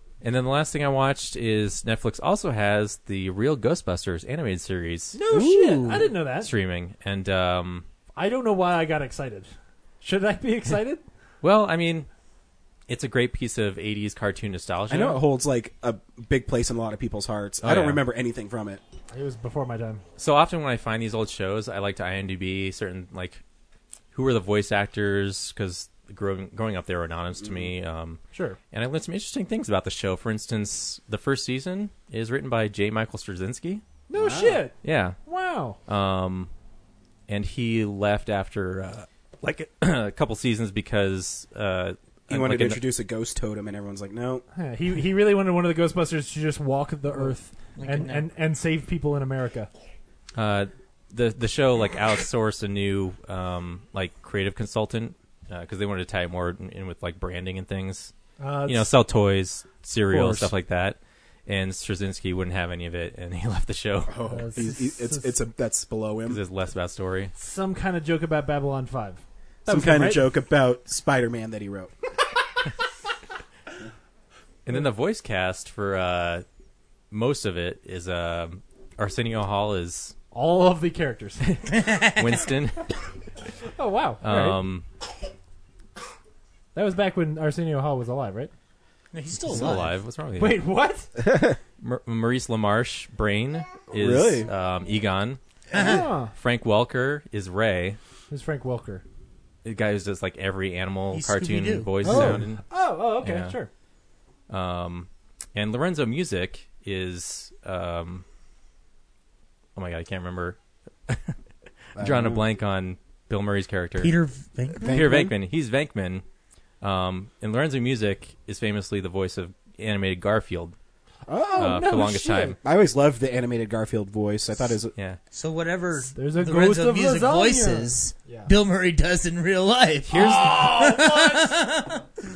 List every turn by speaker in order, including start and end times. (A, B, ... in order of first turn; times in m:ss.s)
0:00.2-0:05.2 A
0:05.1-0:06.5 B
0:05.3-0:05.9 C
0:06.3-0:07.8 A
0:08.2-0:09.5 B
0:10.0-0:11.0 B
0:11.4-0:12.1 A
0:12.9-0:15.2 A
0:14.9-0:18.8 D
0:17.6-0:18.0 A
0:19.1-0:20.0 B
0:20.2-0:23.4 A
0:24.1-0:28.2 A
0:27.4-0:27.7 D
0:28.3-0:28.6 B
0:28.7-0:33.8 A
0:34.1-0:35.8 B
0:34.7-0:35.2 A
0:35.8-0:36.5 A
0:37.3-0:42.8 A
0:42.3-0:44.4 D
0:44.5-0:49.7 B
0:47.8-0:48.2 C
0:50.3-0:58.1 A
0:58.4-0:58.9 B
0:58.6-1:04.2 A
1:00.1-1:00.5 B
1:04.1-1:06.4 D
1:04.3-1:05.4 B
1:06.2-1:07.3 A
1:07.4-1:10.3 B
1:09.6-1:11.9 D
1:14.6-1:16.4 A
1:17.1-1:20.1 A
1:20.3-1:21.7 B
1:21.7-1:22.5 C
1:22.1-1:22.9 A
1:23.8-1:24.6 B
1:24.2-1:24.8 A
1:26.7-1:28.5 B
1:29.1-1:30.0 C
1:29.5-1:30.6 A
1:30.4-1:31.1 B
1:31.2-1:31.6 D
1:31.8-1:35.4 A
1:33.9-1:34.5 D
1:35.7-1:36.0 C
1:35.7-1:36.3 B
1:36.3-1:38.0 A
1:38.3-1:39.0 B
1:39.6-1:42.6 A
1:41.1-1:41.9 C
1:42.0-1:43.7 B
1:42.1-1:42.4 D
1:43.2-1:43.5 A
1:44.5-1:48.2 A
1:49.7-1:51.4 A
1:51.9-1:54.2 A
1:52.0-1:52.4 D
1:54.0-1:54.9 C
1:54.8-1:55.3 D
1:54.8-1:56.2 A
1:56.8-2:00.7 A
2:01.3-2:02.0 D
2:01.3-2:02.6 B
2:01.6-2:02.6 A
2:02.6-2:04.9 D
2:05.3-2:12.0 C
2:06.1-2:08.5 B
2:10.1-2:11.6 B